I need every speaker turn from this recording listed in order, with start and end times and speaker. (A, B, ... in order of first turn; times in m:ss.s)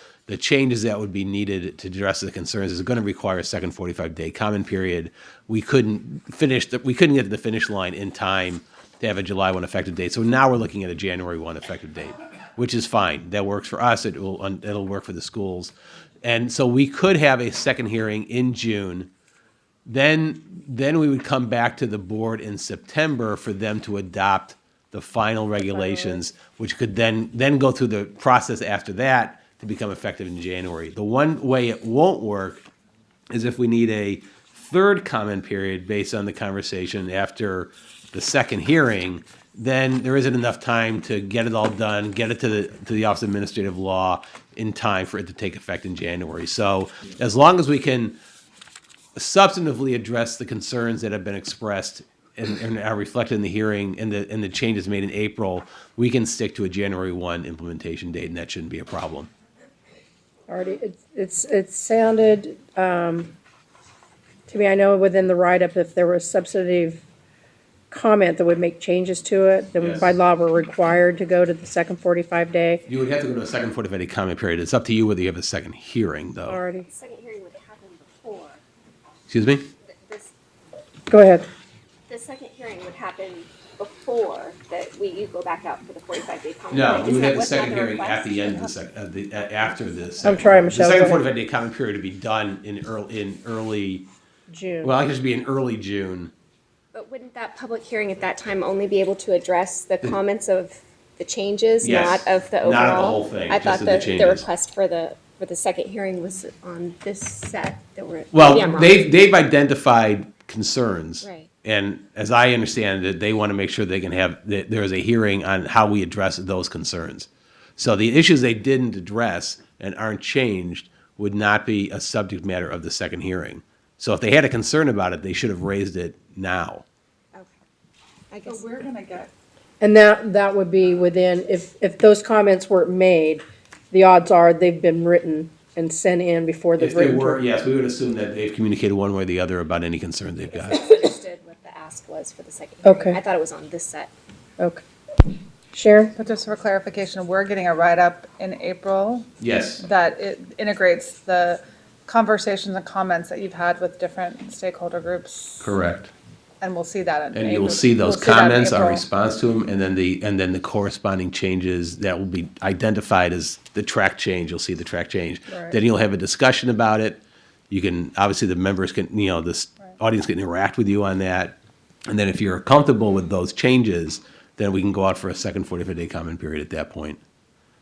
0:00.3-0:15.7 A
0:16.2-0:19.1 A
0:19.8-0:32.7 A
0:25.9-0:26.2 B
0:33.3-0:48.2 A
0:49.2-0:59.3 A
1:00.5-1:03.3 B
1:04.5-1:07.0 B
1:07.9-1:12.8 B
1:09.8-1:10.1 A
1:12.9-1:16.6 A
1:16.5-1:16.9 B
1:16.9-1:18.6 C
1:19.3-1:19.7 A
1:19.9-1:20.3 C
1:21.1-1:21.5 B
1:22.1-1:28.7 C
1:26.7-1:34.1 A
1:30.2-1:31.2 B
1:34.5-1:35.0 B
1:34.8-1:36.3 A
1:36.9-1:49.1 C
1:41.8-1:44.4 A
1:48.3-2:06.8 A
1:51.2-1:51.5 C
2:07.3-2:07.6 C
2:08.3-2:09.0 C
2:08.4-2:09.3 D
2:09.8-2:17.4 B
2:16.8-2:20.8 A
2:20.5-2:24.1 C
2:22.8-2:23.2 B
2:25.7-2:26.1 B
2:26.2-2:35.7 D
2:29.4-2:29.8 A
2:35.6-2:36.1 A
2:36.6-2:39.1 D
2:37.3-2:57.2 A